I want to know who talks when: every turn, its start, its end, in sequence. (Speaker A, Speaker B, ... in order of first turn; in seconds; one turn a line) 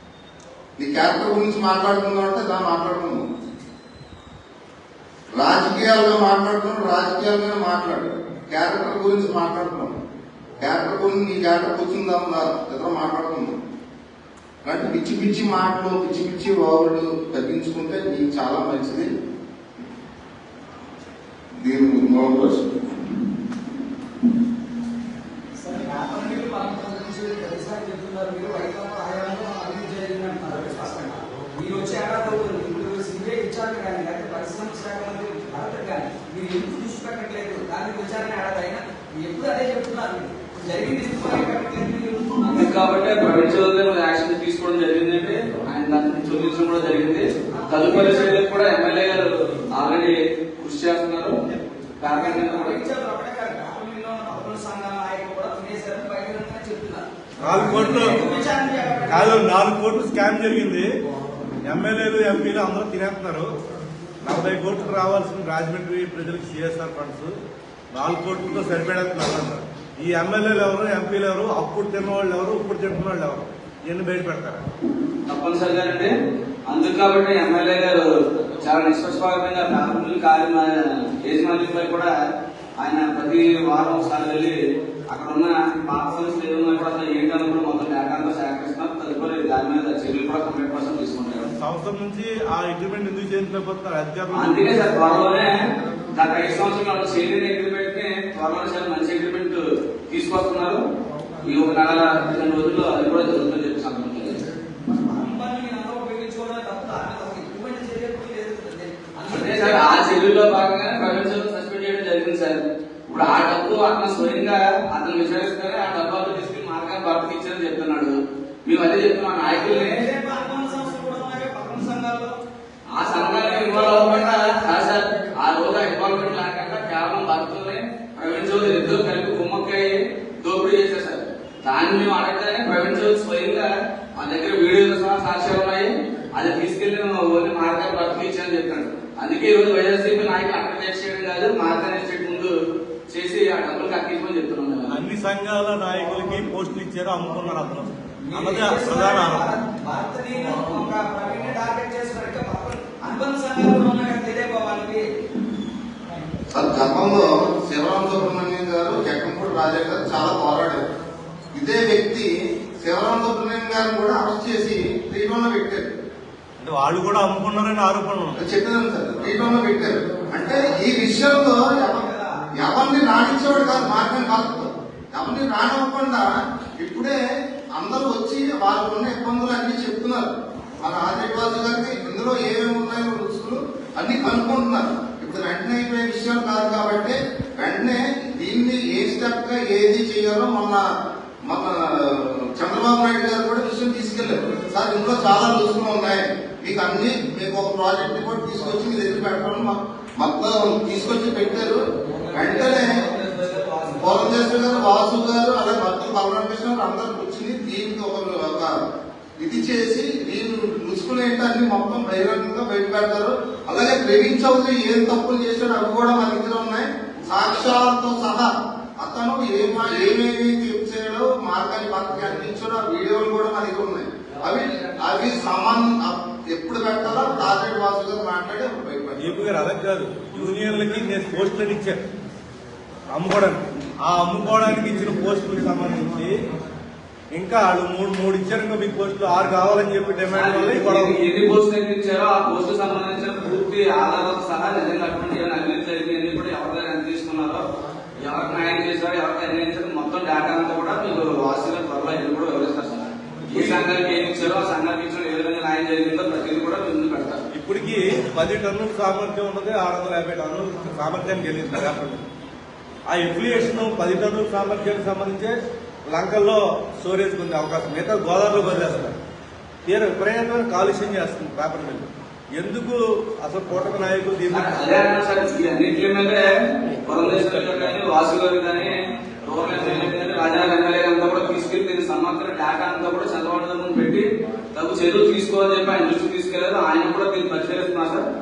Speaker A: 0.8-3.3
Speaker A: 5.4-10.0
Speaker A: 10.6-13.6
Speaker A: 14.7-19.1
Speaker A: 21.6-22.7
Speaker B: 25.6-42.7
Speaker C: 42.4-51.4
Speaker B: 47.5-48.5
Speaker C: 52.0-52.8
Speaker B: 52.0-59.4
Speaker D: 57.4-58.2
Speaker D: 59.1-60.9
Speaker D: 61.7-63.5
Speaker D: 64.2-67.3
Speaker D: 67.9-74.7
Speaker C: 75.3-76.1
Speaker C: 76.7-82.1
Speaker C: 82.8-84.6
Speaker C: 85.1-91.5
Speaker D: 91.6-94.9
Speaker C: 94.3-100.8
Speaker C: 101.4-104.5
Speaker B: 104.8-109.9
Speaker C: 109.3-120.0
Speaker B: 119.5-122.3
Speaker C: 122.9-142.6
Speaker B: 123.1-124.4
Speaker C: 143.1-145.0
Speaker D: 144.9-149.5
Speaker B: 148.3-155.1
Speaker A: 156.5-160.9
Speaker A: 161.6-166.0
Speaker D: 166.6-168.4
Speaker A: 168.4-172.1
Speaker B: 170.4-172.3
Speaker A: 172.6-176.3
Speaker A: 176.8-177.2
Speaker A: 177.7-190.8
Speaker A: 191.4-201.8
Speaker C: 202.1-204.6
Speaker A: 202.3-203.0
Speaker A: 204.0-208.7
Speaker A: 209.4-229.4
Speaker D: 229.2-232.0
Speaker D: 233.1-236.3
Speaker D: 237.3-241.2
Speaker C: 240.3-247.7
Speaker C: 248.2-257.4
Speaker D: 253.5-253.9
Speaker D: 257.5-262.2
Speaker D: 263.1-265.5
Speaker D: 266.1-269.2
Speaker D: 269.9-275.1
Speaker C: 274.5-276.5
Speaker C: 277.0-288.2